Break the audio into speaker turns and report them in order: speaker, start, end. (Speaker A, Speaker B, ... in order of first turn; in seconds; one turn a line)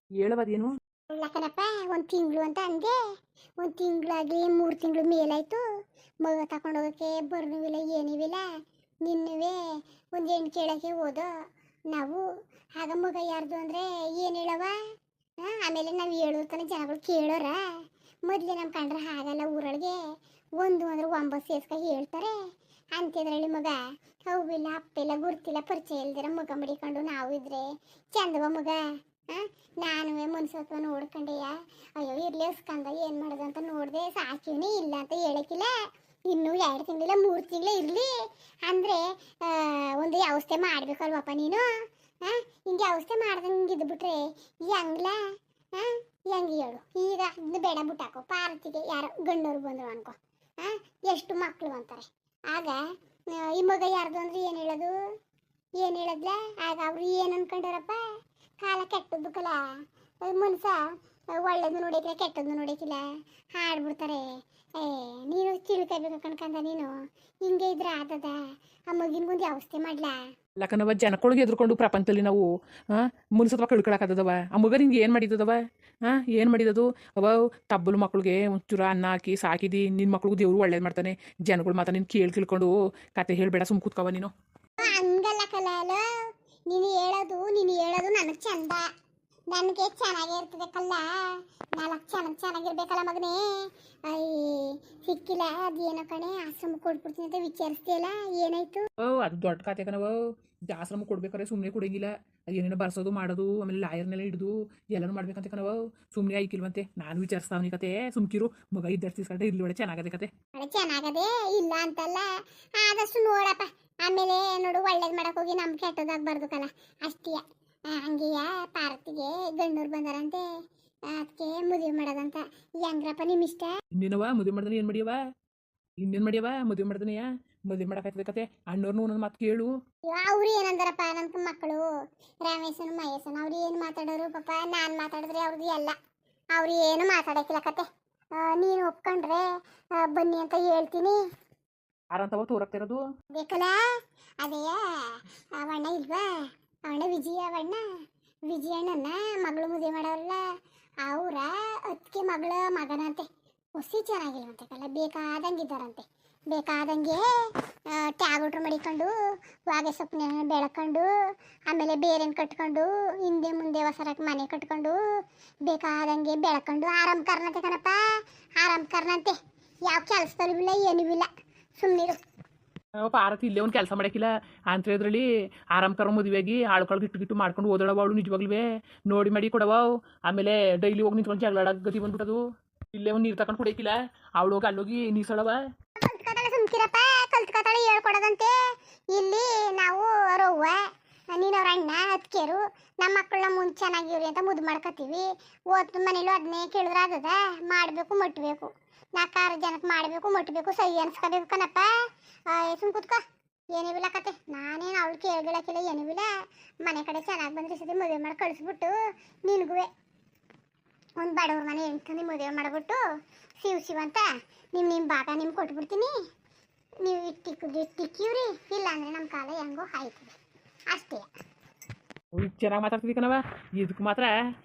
Speaker A: 0.2-0.8
Speaker B: 1.1-2.9
Speaker B: 3.6-5.6
Speaker B: 6.2-8.4
Speaker B: 9.0-9.6
Speaker B: 10.1-11.3
Speaker B: 11.9-12.2
Speaker B: 12.8-14.8
Speaker B: 15.4-17.6
Speaker B: 18.3-20.0
Speaker B: 20.6-22.3
Speaker B: 22.9-23.8
Speaker B: 24.3-28.8
Speaker B: 29.3-35.7
Speaker B: 36.3-38.1
Speaker B: 38.7-41.7
Speaker B: 42.2-45.2
Speaker B: 45.7-52.8
Speaker B: 53.3-54.9
Speaker B: 55.8-58.0
Speaker B: 58.6-59.6
Speaker B: 60.2-60.8
Speaker B: 61.4-63.0
Speaker B: 63.5-64.2
Speaker B: 64.8-66.9
Speaker B: 67.4-68.4
Speaker B: 68.9-70.1
Speaker A: 70.6-84.3
Speaker B: 84.8-86.0
Speaker B: 86.7-88.8
Speaker B: 89.5-98.8
Speaker A: 99.0-100.2
Speaker A: 100.7-110.3
Speaker B: 110.5-120.4
Speaker B: 121.1-123.7
Speaker A: 124.0-125.2
Speaker A: 126.0-129.7
Speaker B: 130.1-131.8
Speaker B: 132.4-135.9
Speaker B: 136.6-139.4
Speaker B: 140.0-141.2
Speaker A: 142.1-143.1
Speaker B: 143.3-143.8
Speaker B: 144.4-147.8
Speaker B: 148.5-150.4
Speaker B: 151.0-159.1
Speaker B: 159.7-161.1
Speaker B: 161.7-165.0
Speaker B: 165.7-168.0
Speaker B: 168.6-169.4
Speaker B: 169.9-172.2
Speaker A: 173.0-182.4
Speaker A: 182.9-185.6
Speaker B: 186.0-188.5
Speaker B: 189.1-190.8
Speaker B: 191.3-201.9
Speaker B: 202.5-203.2
Speaker B: 203.8-206.3
Speaker B: 206.8-209.9
Speaker B: 211.2-213.0
Speaker B: 213.6-216.1
Speaker B: 217.0-220.3
Speaker B: 220.9-221.3
Speaker A: 222.3-224.3